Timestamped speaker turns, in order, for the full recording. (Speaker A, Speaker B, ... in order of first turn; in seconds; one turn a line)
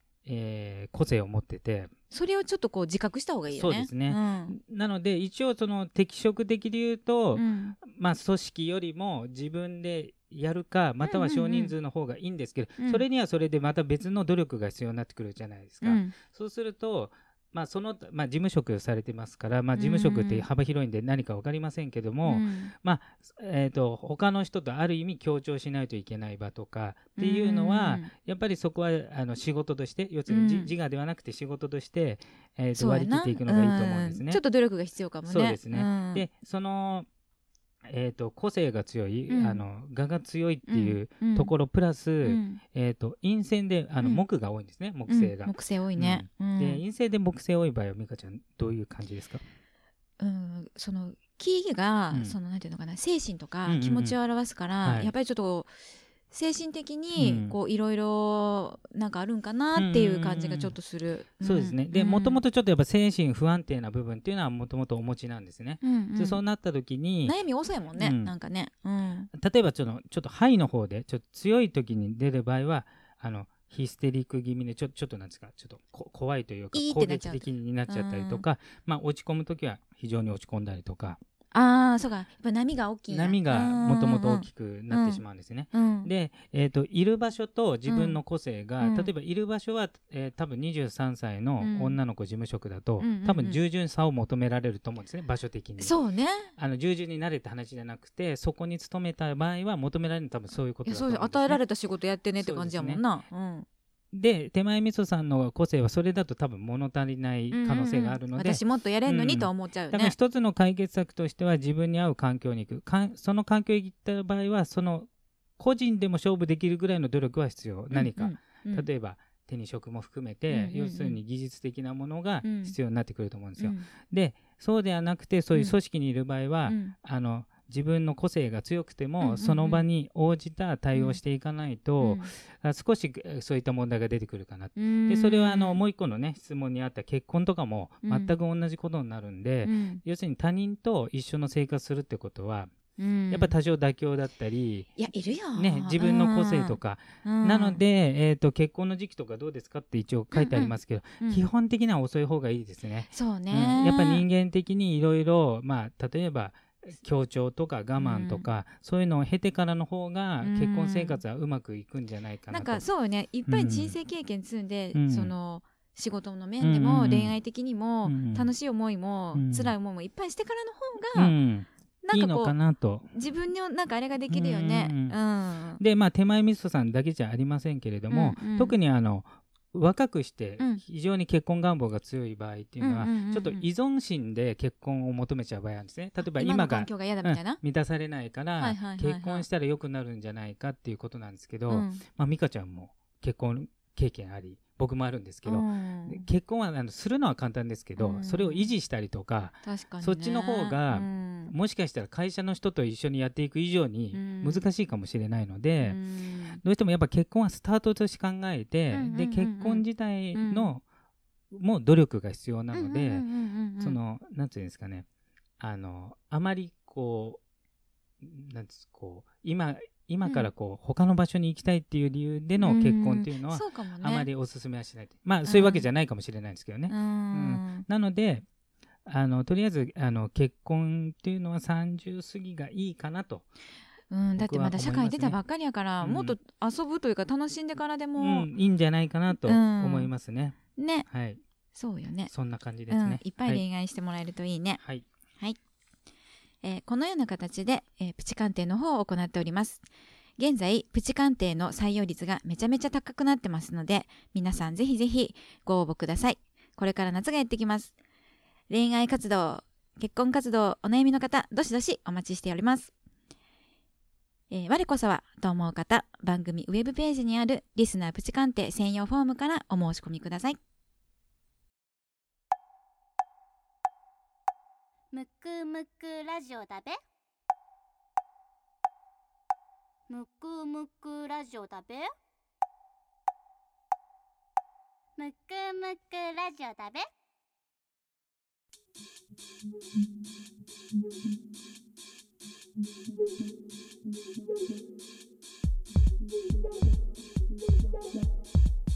Speaker A: 0.2-1.9
Speaker B: 2.1-4.5
Speaker A: 3.5-34.4
Speaker B: 7.3-7.8
Speaker B: 11.0-11.7
Speaker B: 12.8-13.0
Speaker B: 15.8-16.1
Speaker B: 19.7-20.4
Speaker B: 22.2-22.7
Speaker B: 27.2-28.1
Speaker B: 30.3-30.7
Speaker B: 32.7-36.3
Speaker A: 35.2-37.1
Speaker A: 37.8-49.4
Speaker B: 39.3-39.6
Speaker B: 40.7-41.5
Speaker B: 42.2-42.6
Speaker B: 45.1-46.8
Speaker B: 50.2-55.7
Speaker A: 53.6-54.2
Speaker A: 54.8-55.1
Speaker B: 56.3-62.4
Speaker A: 57.1-57.6
Speaker A: 59.7-60.7
Speaker A: 61.4-67.4
Speaker B: 65.8-66.4
Speaker B: 67.2-69.3
Speaker A: 68.0-68.3
Speaker A: 69.3-81.2
Speaker B: 76.7-78.4
Speaker B: 81.5-85.2
Speaker A: 83.1-95.9
Speaker B: 85.7-86.1
Speaker B: 87.9-88.2
Speaker B: 88.8-89.1
Speaker B: 91.6-92.0
Speaker B: 93.0-93.6
Speaker B: 95.8-96.5
Speaker A: 96.5-101.6
Speaker B: 100.8-103.7
Speaker A: 102.4-103.0
Speaker A: 104.1-115.1
Speaker B: 107.5-110.2
Speaker A: 115.6-142.7
Speaker B: 117.9-118.9
Speaker B: 120.5-121.2
Speaker B: 122.4-122.8
Speaker B: 123.6-123.9
Speaker B: 126.7-126.9
Speaker B: 129.2-129.8
Speaker B: 130.9-131.2
Speaker B: 132.0-132.3
Speaker B: 134.8-135.8
Speaker B: 138.1-138.3
Speaker B: 139.6-140.0
Speaker B: 143.0-143.5
Speaker A: 143.3-144.9
Speaker B: 145.0-147.8
Speaker A: 145.5-162.8
Speaker B: 150.3-151.4
Speaker B: 153.1-154.2
Speaker B: 158.0-158.4
Speaker B: 160.4-161.2
Speaker B: 162.5-171.3
Speaker A: 163.5-163.9
Speaker A: 164.9-165.3
Speaker A: 166.6-167.3
Speaker A: 168.0-168.5
Speaker A: 169.3-169.7
Speaker A: 171.1-173.1
Speaker B: 172.0-172.5
Speaker B: 173.1-175.8
Speaker A: 174.3-175.2
Speaker A: 175.8-206.0
Speaker B: 178.1-178.7
Speaker B: 182.8-183.7
Speaker B: 186.2-187.6
Speaker B: 188.6-189.4
Speaker B: 191.7-192.0
Speaker B: 195.4-196.2
Speaker B: 198.0-198.7
Speaker B: 199.7-201.5
Speaker B: 204.1-204.7
Speaker B: 205.8-206.6
Speaker A: 206.6-210.8
Speaker B: 208.9-210.7
Speaker A: 211.5-213.2
Speaker B: 212.7-214.0
Speaker A: 213.8-215.1
Speaker A: 215.6-217.4
Speaker A: 218.2-228.4
Speaker B: 222.6-224.3
Speaker B: 225.4-225.8
Speaker B: 226.9-227.8
Speaker A: 229.1-233.4
Speaker B: 234.1-238.5
Speaker A: 234.4-235.4
Speaker A: 236.0-236.4
Speaker A: 238.2-241.4
Speaker B: 239.3-240.1
Speaker B: 240.8-241.1
Speaker B: 241.7-242.3
Speaker A: 242.3-243.6
Speaker B: 242.9-244.8
Speaker A: 244.8-245.1
Speaker B: 246.6-249.8
Speaker B: 250.4-257.9
Speaker B: 258.7-262.9
Speaker B: 264.5-270.6
Speaker C: 275.1-277.0
Speaker C: 280.1-282.1
Speaker C: 285.2-287.0